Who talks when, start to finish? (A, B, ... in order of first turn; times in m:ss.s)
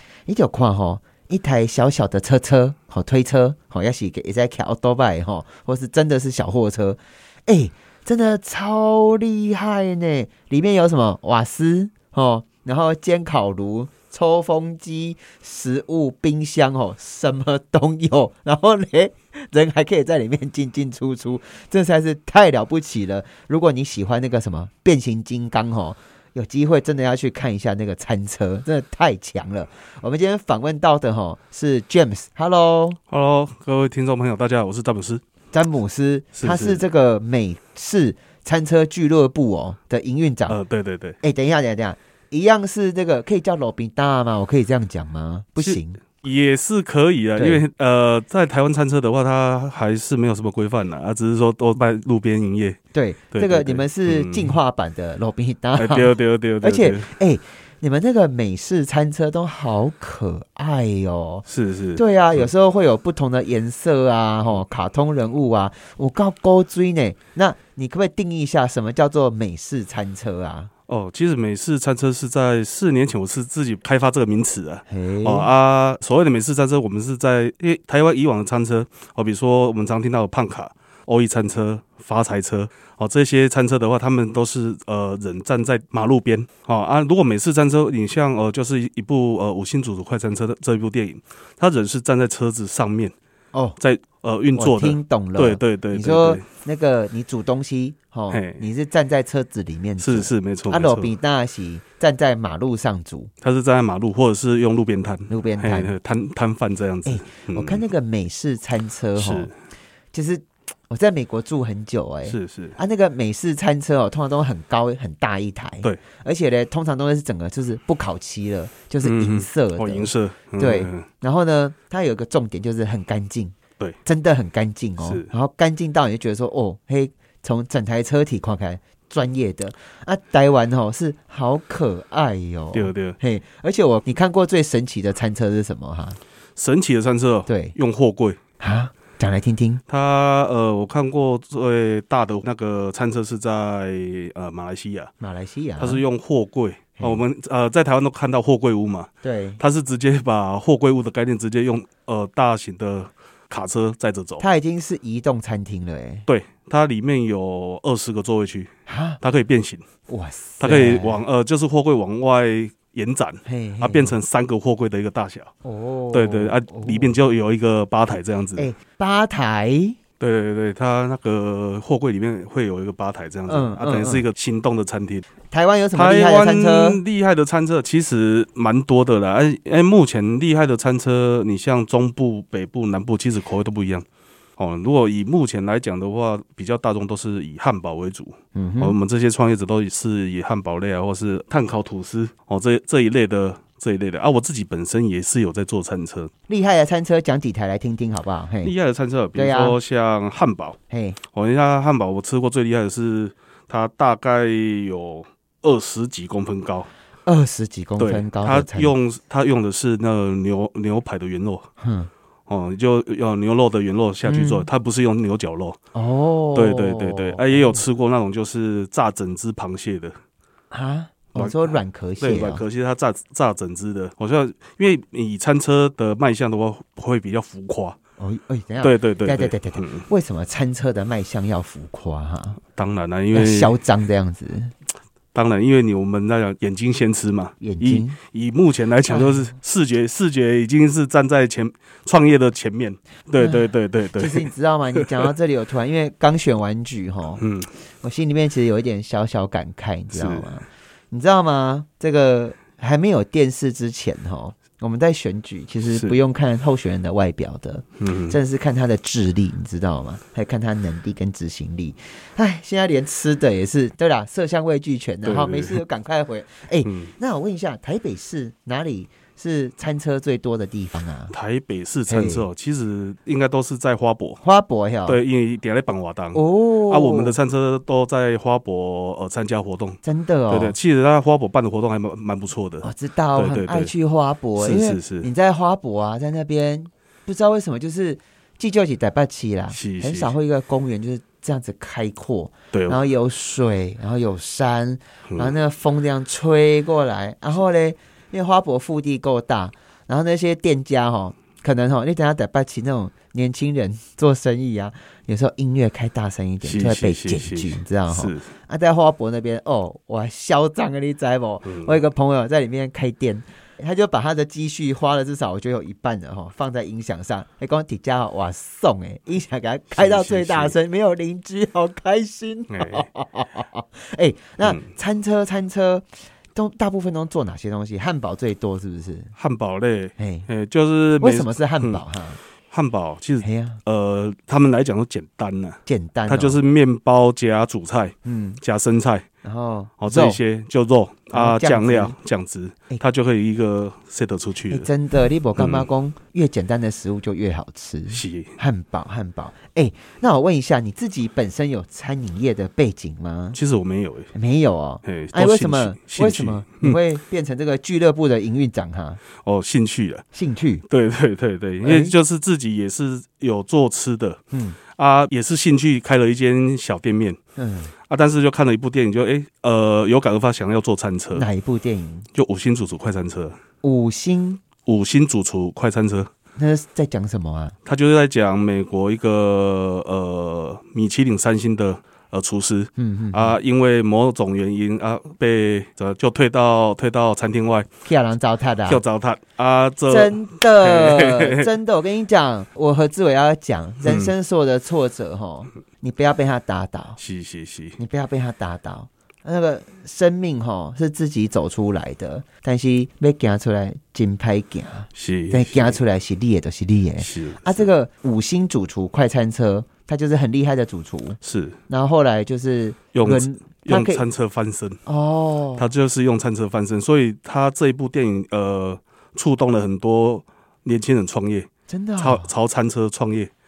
0:00.3-0:33.0 A
0:33.1-0:35.2 B
0:35.5-0:40.6 A
0:36.3-0:36.8 B
0:40.5-0:41.2 B
0:41.2-0:46.0 A
0:45.6-0:52.8 B
0:47.4-0:47.6 A
0:52.9-1:01.4 A
0:53.3-0:54.6 B
0:55.8-0:57.1 B
1:01.4-1:02.5 B
1:02.0-1:10.7 A
1:10.9-1:33.1 B
1:14.9-1:15.5 A
1:33.5-1:33.8 A
1:33.8-1:36.4 B
1:34.6-1:43.3 A
1:38.3-1:38.6 B
1:40.0-1:41.1 B
1:43.4-1:47.9 B
1:45.3-1:45.9 A
1:47.0-1:49.5 A
1:49.2-1:49.5 B
1:50.1-2:03.5 A
1:52.3-1:52.8 B
1:59.0-2:01.1 B
2:04.0-2:16.2 A
2:05.0-2:05.3 B
2:12.7-2:13.2 B
2:16.6-2:18.4 B
2:17.5-2:17.8 A
2:18.6-2:19.8 A
2:19.9-2:25.1 B
2:25.2-2:26.0 A
2:25.8-2:34.4 B
2:29.2-2:29.6 A
2:34.4-2:36.3 A
2:36.3-2:39.8 B
2:38.9-2:39.2 A
2:40.1-2:41.2 A
2:40.6-2:45.5 B
2:43.4-2:44.2 A
2:45.6-2:47.2 A
2:46.1-2:48.7 B
2:48.6-2:50.0 A
2:50.2-2:55.3 B
2:53.5-2:54.2 A
2:55.5-2:57.0 A
2:55.9-3:04.1 B
3:04.6-3:16.3 B
3:08.6-3:09.0 A
3:16.5-3:18.7 A
3:18.6-3:20.8 B
3:19.4-3:19.8 A
3:20.9-3:21.2 A
3:21.3-3:26.9 B
3:27.2-3:28.9 A
3:28.0-3:31.7 B
3:31.8-3:32.1 A
3:32.5-3:35.8 B
3:34.2-3:34.7 A
3:35.9-3:37.8 A
3:36.5-3:40.2 B
3:40.7-3:42.6 A
3:41.4-3:48.0 B
3:48.2-3:52.6 A
3:48.8-3:50.1 B
3:52.8-3:53.8 B
3:53.3-3:54.7 A
3:55.3-4:05.3 B
3:57.6-3:58.2 A
3:59.1-3:59.6 A
4:03.4-4:07.4 A
4:07.4-4:07.7 B
4:08.0-4:31.3 A
4:10.1-4:10.5 B
4:15.9-4:16.2 B
4:18.0-4:18.4 B
4:25.2-4:25.8 B
4:26.8-4:27.1 B
4:31.3-4:34.4 B
4:32.1-4:32.5 A
4:34.4-4:35.2 A
4:35.1-4:43.9 B
4:36.3-4:37.4 A
4:40.0-4:40.8 A
4:42.8-5:29.3 A
4:44.6-4:45.3 B
4:49.7-4:50.3 B
4:52.7-4:53.0 B
4:55.3-4:55.5 B
5:06.6-5:08.5 B
5:11.6-5:12.0 B
5:19.9-5:20.8 B
5:22.7-5:23.1 B
5:24.6-5:24.9 B
5:29.4-5:32.0 B
5:30.2-5:30.5 A
5:31.2-5:32.4 A
5:32.7-5:39.2 B
5:33.4-5:33.8 A
5:35.9-5:36.6 A
5:38.2-5:38.6 A
5:39.4-5:40.4 A
5:40.0-5:44.9 B
5:41.3-5:42.2 A
5:44.7-5:53.6 A
5:45.6-5:45.9 B
5:48.1-5:48.6 B
5:53.5-5:54.3 B
5:54.4-5:59.2 A
5:55.0-5:57.0 B
5:59.4-6:00.2 B
6:00.3-6:00.8 A
6:00.9-6:07.4 B
6:01.8-6:02.1 A
6:04.5-6:04.8 A
6:07.6-6:07.9 A
6:08.1-6:11.5 B
6:11.4-6:12.3 A
6:12.3-6:13.6 B
6:13.8-6:14.6 A
6:14.9-6:16.3 B
6:16.6-6:17.8 A
6:17.8-6:27.9 B
6:23.0-6:23.6 A
6:28.0-6:29.0 A
6:28.8-6:31.7 B
6:30.1-6:37.2 A
6:34.0-6:34.3 B
6:37.2-6:38.0 B
6:38.0-6:51.4 A
6:45.1-6:46.0 B
6:47.2-6:47.9 B
6:51.4-6:51.8 B
6:51.9-6:54.2 A
6:53.1-6:55.0 B
6:55.1-6:55.9 A
6:55.8-7:03.5 B
7:01.9-7:02.5 A